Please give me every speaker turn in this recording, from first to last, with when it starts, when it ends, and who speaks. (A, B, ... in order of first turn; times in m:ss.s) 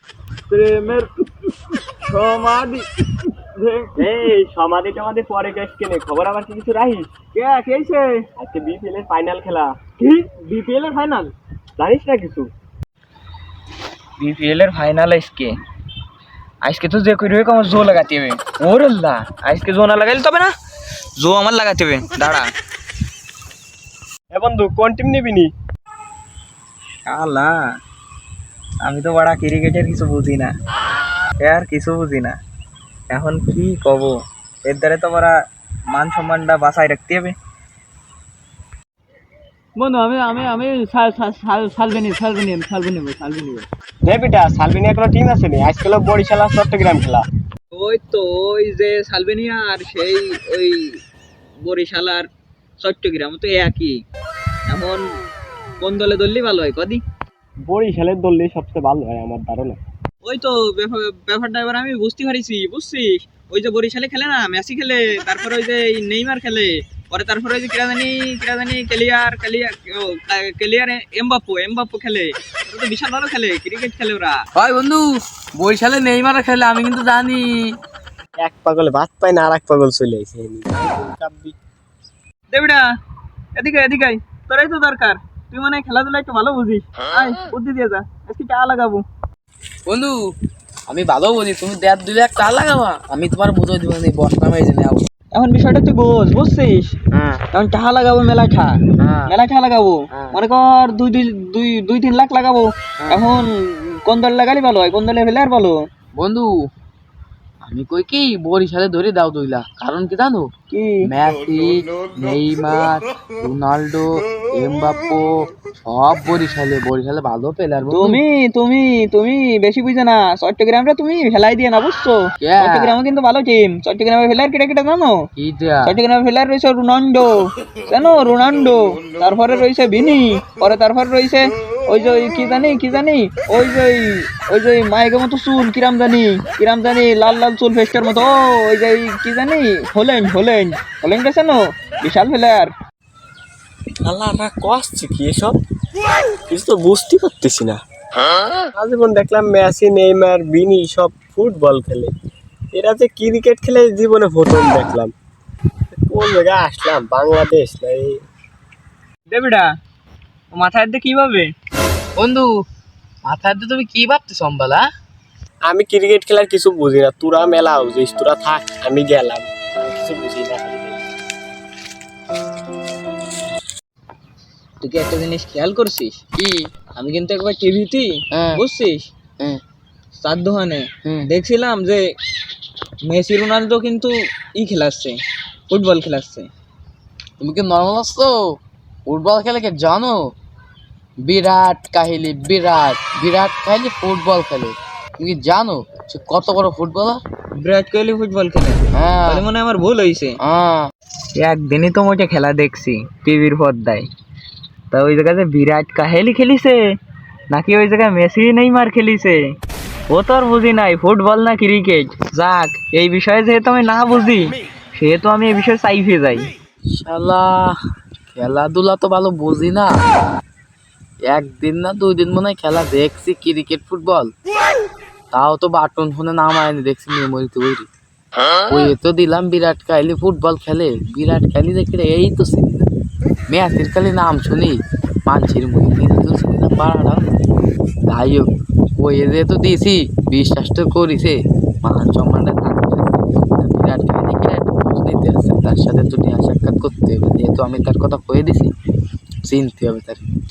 0:00.5-0:01.1 A
0:02.0-0:04.2 A
0:04.0-0:07.1 B
0:07.3-0:08.2 A
0:08.4-0:09.8 B
0:10.0-0:11.3 A
0:11.8-0:12.5 B
0:14.2-0:15.6 A
0:16.6-0:20.5 A
0:21.2-0:22.5 A
0:24.3-0:25.5 B
0:27.0-0:27.6 A
0:28.8-0:30.5 A
0:31.4-0:32.4 A
0:33.1-0:35.4 A
0:35.9-0:37.3 A
0:39.8-0:43.6 A
0:44.0-0:47.2 B
0:47.7-0:51.0 A
0:51.6-0:52.3 A
0:52.8-0:54.0 A
0:54.7-0:55.1 A
0:55.8-0:57.0 A
0:57.6-0:59.8 B
1:00.2-1:14.4 A
1:14.5-1:17.7 C
1:18.4-1:21.5 B
1:22.5-1:22.8 A
1:23.6-1:29.0 A
1:29.8-1:30.2 C
1:30.9-1:35.0 C
1:35.3-1:36.9 A
1:37.1-1:37.4 C
1:37.5-1:38.8 A
1:39.0-1:39.3 C
1:39.3-1:45.8 A
1:46.2-1:46.5 C
1:47.6-1:50.5 C
1:50.7-1:51.1 A
1:51.0-1:58.2 C
1:57.9-2:05.2 A
2:02.4-2:03.0 C
2:05.4-2:06.0 C
2:05.8-2:22.7 A
2:24.0-2:25.6 B
2:26.5-2:27.8 B
2:28.8-2:32.1 B
2:32.7-2:35.1 B
2:36.1-2:38.2 B
2:39.3-2:39.7 A
2:40.5-2:41.5 A
2:42.2-2:42.5 C
2:43.2-2:44.8 C
2:45.7-2:51.0 B
2:54.8-2:56.2 A
2:56.4-2:56.7 C
2:57.0-2:59.0 A
2:58.3-2:58.6 C
3:00.2-3:02.0 A
3:03.1-3:05.2 A
3:05.7-3:06.5 A
3:07.4-3:08.4 C
3:09.0-3:10.2 C
3:11.2-3:17.2 C
3:17.6-3:20.4 A
3:18.9-3:19.5 C
3:20.4-3:20.9 C
3:21.3-3:24.0 A
3:24.9-3:26.9 A
3:27.5-3:29.5 A
3:30.1-3:36.5 A
3:37.0-3:37.8 C
3:38.3-3:39.9 C
3:41.3-3:44.3 C
3:45.3-3:47.9 C
3:48.7-3:52.9 C
3:53.5-3:57.2 C
3:58.1-4:08.7 C
4:09.4-4:10.2 C